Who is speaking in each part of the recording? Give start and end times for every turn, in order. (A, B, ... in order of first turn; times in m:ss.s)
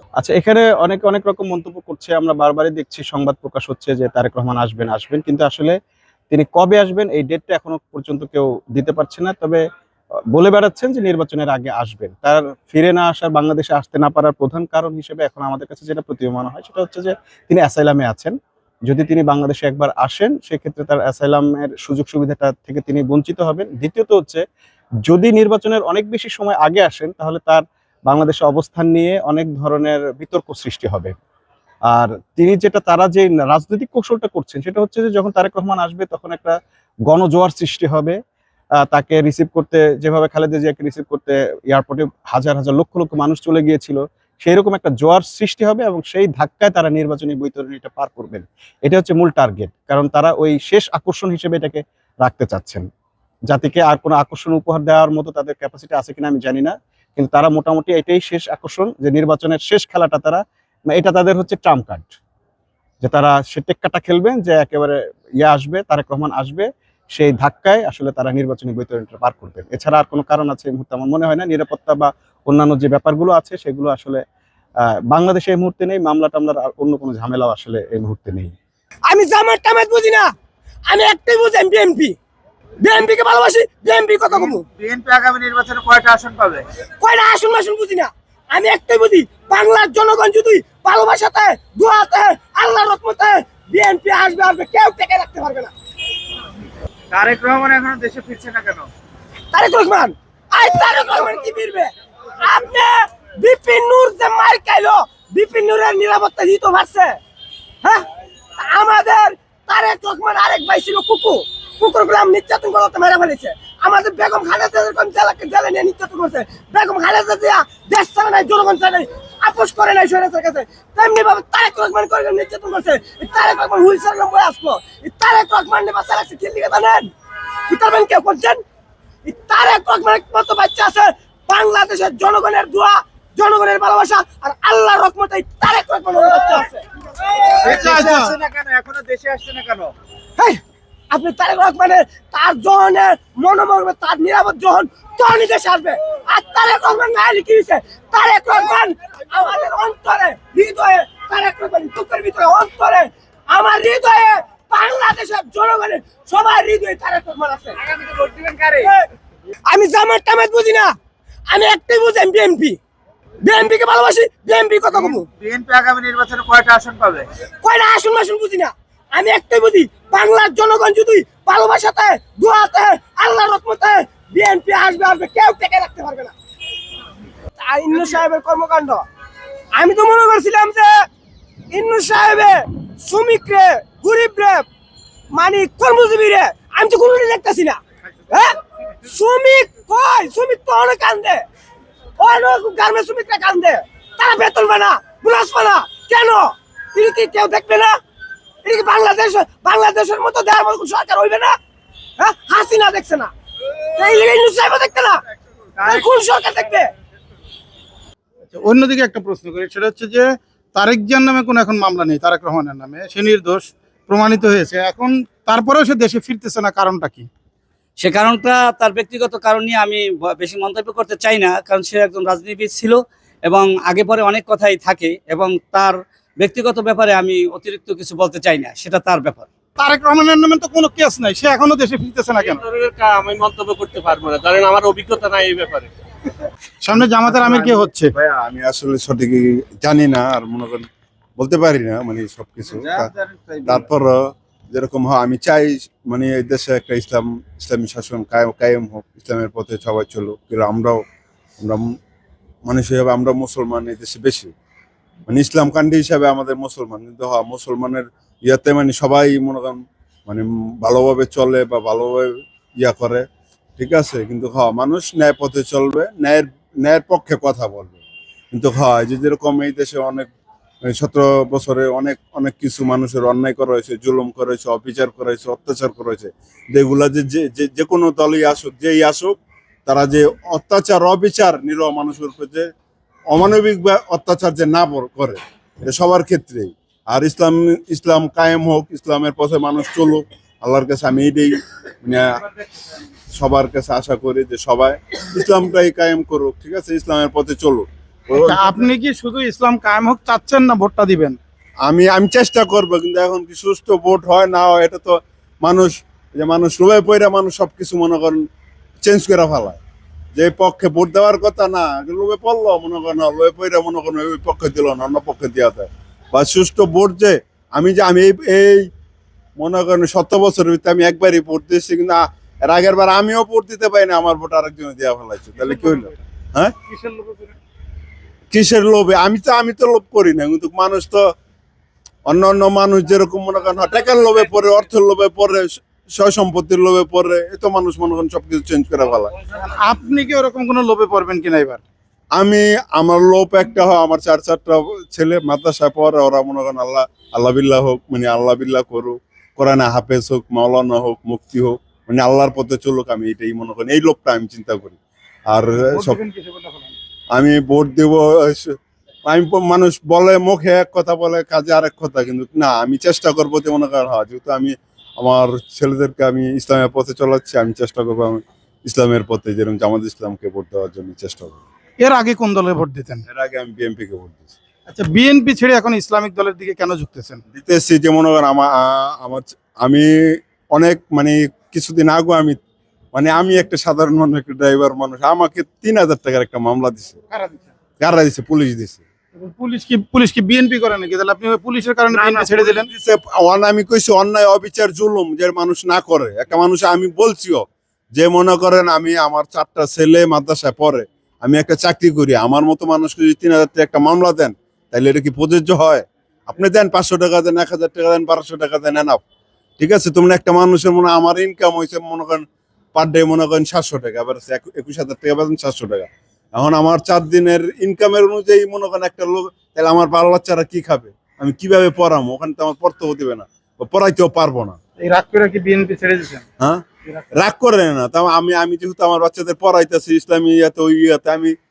0:00.2-0:05.8 A
0:06.3-0:09.6 A
0:10.3-0:18.3 A
0:18.9-0:24.4 A
0:25.0-0:31.1 A
0:31.9-0:36.5 A
0:37.1-0:38.2 A
0:38.8-0:52.9 A
0:53.5-1:02.2 A
1:03.0-1:14.2 A
1:15.1-1:18.5 A
1:19.1-1:20.3 B
1:20.9-1:22.1 B
1:22.8-1:24.6 B
1:24.3-1:26.6 C
1:27.0-1:35.7 B
1:37.1-1:38.9 C
1:39.5-1:47.2 B
1:48.6-2:07.1 B
2:07.7-2:08.6 B
2:09.2-2:16.8 B
2:17.6-2:19.9 C
2:17.6-2:18.4 D
2:20.4-2:37.8 B
2:38.0-2:38.8 C
2:38.8-2:39.0 B
2:39.7-2:40.9 B
2:41.5-2:42.8 B
2:43.4-2:45.2 B
2:44.9-2:47.3 C
2:47.6-2:56.3 B
2:57.6-2:59.0 B
2:59.8-3:00.9 B
3:01.7-3:04.7 B
3:05.3-3:07.8 B
3:08.3-3:11.4 B
3:12.2-3:18.0 B
3:18.6-3:21.6 B
3:22.2-3:23.3 B
3:23.9-3:25.2 B
3:25.8-3:26.9 B
3:28.4-3:37.3 D
3:38.0-3:42.9 E
3:43.5-3:49.4 E
3:49.8-3:52.6 D
3:52.4-3:55.9 F
3:56.8-3:58.1 D
3:57.2-4:00.9 G
4:01.4-4:03.1 G
4:02.7-4:03.9 C
4:03.6-4:04.1 G
4:04.7-4:11.0 G
4:11.6-4:11.8 G
4:12.6-4:14.5 G
4:15.3-4:23.2 G
4:23.8-4:28.0 G
4:28.5-4:30.3 G
4:30.8-4:42.7 G
4:43.3-4:52.4 G
4:53.3-4:58.8 G
4:58.3-5:01.4 D
5:01.8-5:08.4 G
5:09.0-5:09.8 G
5:10.3-5:18.8 G
5:19.6-5:26.7 G
5:25.6-5:26.2 D
5:26.8-5:27.6 D
5:28.5-5:31.2 G
5:32.2-5:39.3 G
5:39.5-5:41.8 D
5:42.3-5:55.0 G
5:55.5-5:56.2 G
5:55.9-5:57.0 D
5:57.3-6:11.6 G
6:12.0-6:13.2 D
6:13.3-6:14.5 G
6:14.9-6:17.4 D
6:17.5-6:20.1 G
6:20.7-6:22.6 G
6:23.1-6:27.2 G
6:27.3-6:27.7 D
6:28.0-6:29.0 G
6:29.3-6:32.9 D
6:32.1-6:49.2 G
6:49.8-7:04.8 G
7:05.0-7:06.4 D
7:07.4-7:11.5 G